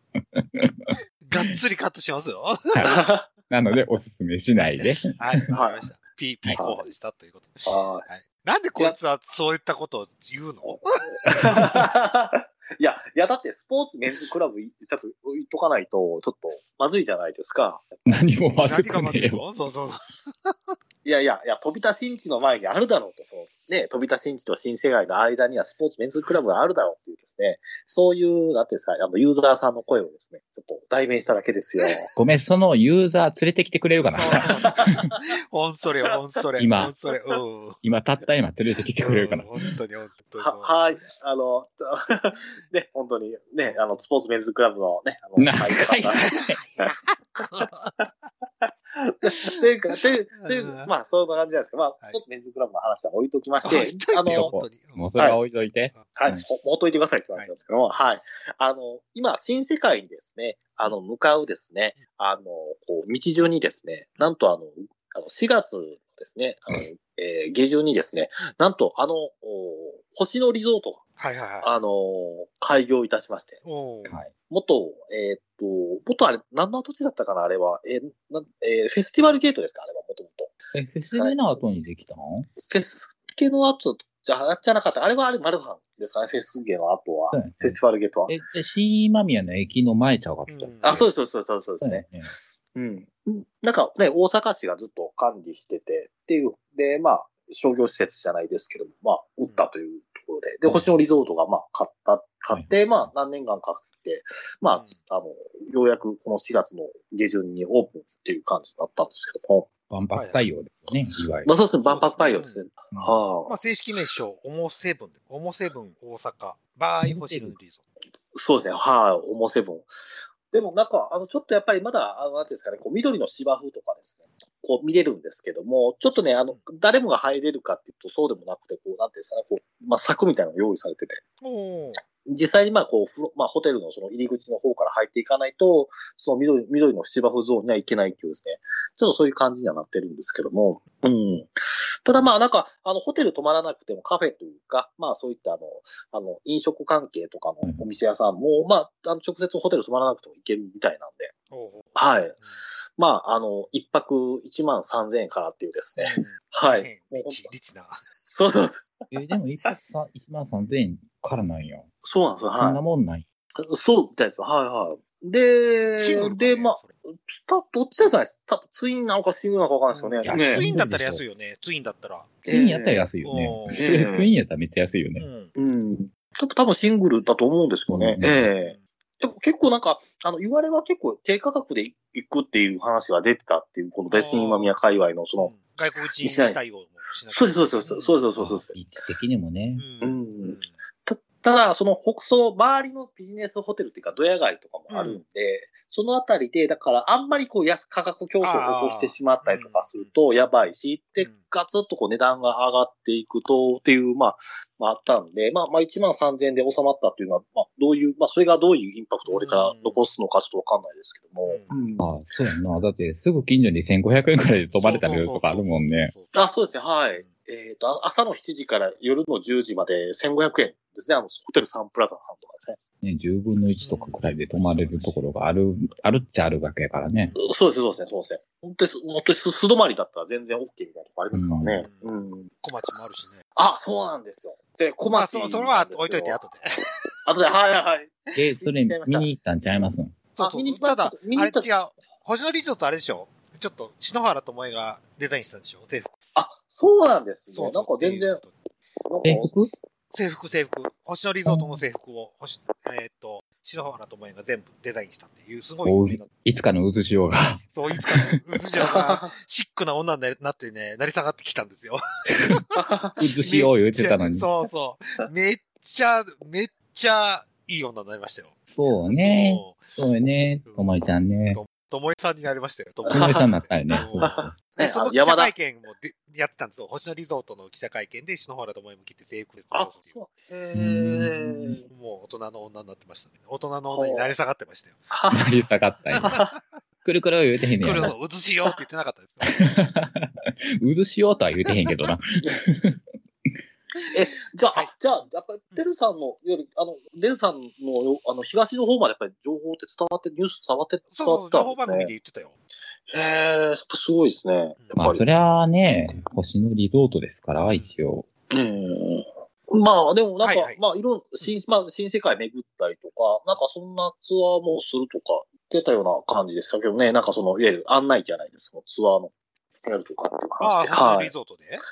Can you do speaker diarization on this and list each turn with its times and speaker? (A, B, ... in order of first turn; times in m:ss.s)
0:00.3-0:01.0 A
0:01.2-0:02.7 B
0:02.7-0:05.1 A
0:02.8-0:03.2 C
0:04.6-0:11.8 B
0:05.5-0:05.9 C
0:06.6-0:06.8 C
0:07.6-0:08.0 C
0:11.2-0:18.0 C
0:18.0-0:19.4 A
0:18.6-0:20.7 B
0:21.0-0:32.1 C
0:32.1-0:35.1 A
0:34.0-0:37.8 B
0:34.4-0:34.9 C
0:36.6-0:36.9 A
0:37.8-0:39.5 A
0:39.0-0:40.8 B
0:40.4-0:46.3 C
0:45.4-0:46.6 A
0:46.2-0:48.0 B
0:49.0-0:54.5 C
0:49.2-0:49.6 B
0:50.4-0:50.9 B
0:53.6-0:55.1 B
0:54.3-0:56.4 A
0:56.2-1:11.0 C
1:11.2-1:11.7 B
1:11.6-1:13.6 C
1:13.6-1:14.2 B
1:14.0-1:14.3 A
1:14.5-1:20.5 C
1:20.7-1:22.5 A
1:21.1-1:21.4 C
1:22.6-1:28.3 C
1:27.3-1:31.1 A
1:30.5-1:31.0 B
1:30.8-1:49.7 C
1:31.8-1:32.3 A
1:44.7-1:45.0 B
1:49.9-1:51.5 A
1:50.1-1:50.4 B
1:51.4-1:53.6 C
1:51.8-1:52.6 B
1:53.4-1:57.8 B
1:57.0-1:57.6 A
1:58.3-2:11.2 C
2:11.4-2:12.0 B
2:12.2-2:31.3 C
2:31.5-2:32.6 B
2:32.0-2:37.5 C
2:36.0-2:38.0 B
2:38.2-2:39.1 C
2:39.1-2:41.9 A
2:42.0-2:42.8 C
2:42.6-2:43.2 A
2:43.6-2:50.6 C
2:46.0-2:46.9 B
2:49.9-2:52.4 B
2:50.2-2:51.2 A
2:52.4-2:55.2 A
2:52.4-2:53.1 C
2:53.2-2:53.8 B
2:53.7-2:54.3 C
2:55.2-2:55.5 B
2:55.6-3:05.5 C
2:57.9-2:58.4 A
2:58.5-2:58.8 B
3:04.1-3:04.7 B
3:05.4-3:08.2 B
3:06.2-3:06.6 C
3:07.3-3:08.8 C
3:08.4-3:09.8 A
3:09.7-3:10.7 B
3:10.0-3:32.1 C
3:14.9-3:15.2 B
3:18.4-3:20.2 B
3:21.2-3:21.4 B
3:29.3-3:30.0 B
3:31.4-3:31.7 B
3:32.0-3:36.1 A
3:34.8-3:36.5 B
3:36.3-3:42.8 C
3:43.0-3:47.3 A
3:43.8-3:45.3 B
3:47.4-3:52.6 C
3:51.3-3:51.9 A
3:51.7-3:52.1 B
3:52.6-3:53.4 B
3:53.5-3:56.4 C
3:55.1-3:56.9 B
3:57.2-3:59.3 C
3:58.4-4:00.2 A
4:00.4-4:06.1 B
4:00.4-4:01.7 C
4:06.4-4:08.4 C
4:07.5-4:08.5 B
4:09.0-4:09.8 C
4:09.2-4:09.7 A
4:10.1-4:16.3 B
4:11.4-4:11.8 A
4:15.8-4:18.2 A
4:17.7-4:22.7 B
4:18.8-4:19.3 C
4:22.8-4:23.2 C
4:23.2-4:24.5 A
4:23.4-4:28.5 B
4:28.7-4:31.6 A
4:29.2-4:30.0 B
4:30.6-4:30.9 B
4:31.5-4:40.2 B
4:33.1-4:33.5 C
4:33.1-4:34.5 A
4:34.2-4:35.5 C
4:39.7-4:41.8 C
4:40.7-4:41.8 A
4:41.9-4:45.0 B
4:43.9-4:44.3 C
4:45.1-4:45.6 C
4:45.3-4:46.3 A
4:46.2-4:46.6 B
4:46.2-4:46.5 C
4:47.0-4:48.1 A
4:47.8-4:49.6 B
4:49.5-4:53.6 A
4:54.1-5:02.1 C
5:01.1-5:02.5 B
5:03.1-5:05.2 C
5:04.8-5:05.0 B
5:05.0-5:08.2 A
5:07.6-5:07.9 B
5:08.5-5:21.3 C
5:10.4-5:10.8 B
5:20.6-5:21.8 B